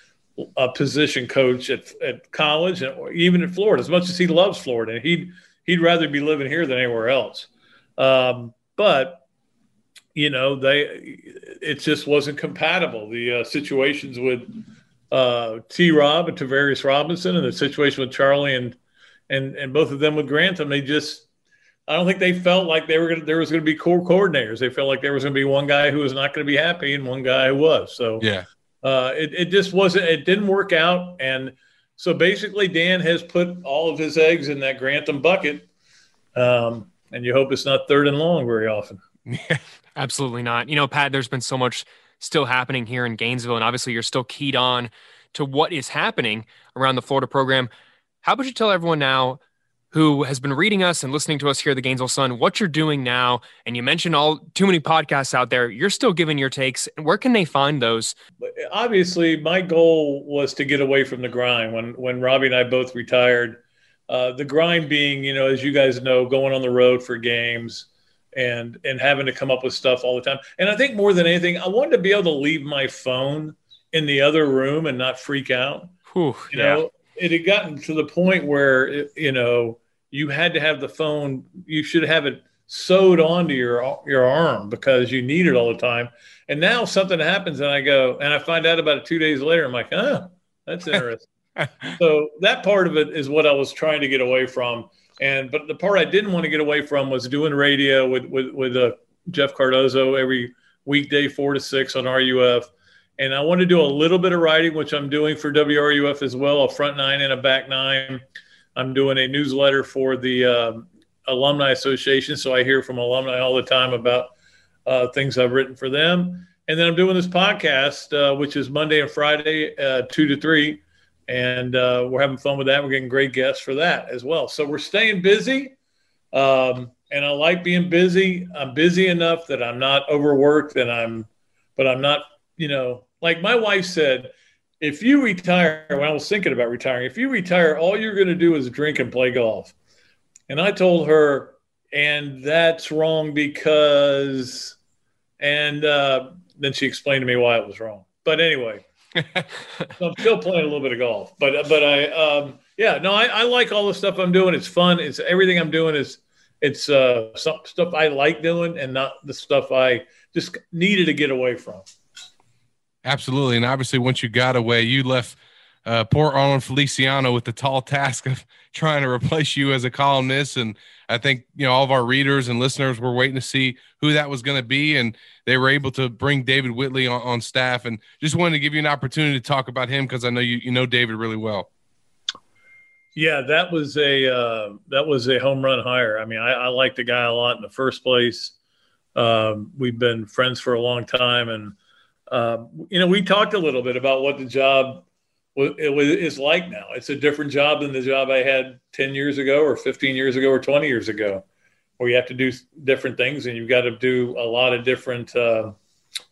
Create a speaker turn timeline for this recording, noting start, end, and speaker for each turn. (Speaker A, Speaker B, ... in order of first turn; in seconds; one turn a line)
Speaker A: 0.6-9.2
Speaker A: 10.1-14.6
Speaker A: 15.1-18.8
Speaker A: 19.3-21.2
Speaker A: 21.9-28.3
Speaker B: 28.2-28.4
Speaker A: 28.8-35.6
Speaker A: 36.3-39.0
Speaker B: 39.3-39.6
Speaker C: 40.0-47.7
Speaker C: 48.2-49.4
Speaker C: 49.9-58.1
Speaker A: 58.6-75.9
Speaker C: 76.1-76.8
Speaker A: 76.5-91.3
Speaker A: 91.8-108.2
Speaker A: 108.8-114.3
Speaker A: 114.8-125.7
Speaker A: 126.3-139.7
Speaker A: 140.5-144.7
Speaker A: 145.4-148.8
Speaker A: 149.8-161.8
Speaker B: 163.0-181.7
Speaker A: 183.2-188.5
Speaker A: 189.1-191.7
Speaker A: 192.3-195.0
Speaker A: 195.6-201.4
Speaker A: 202.0-205.8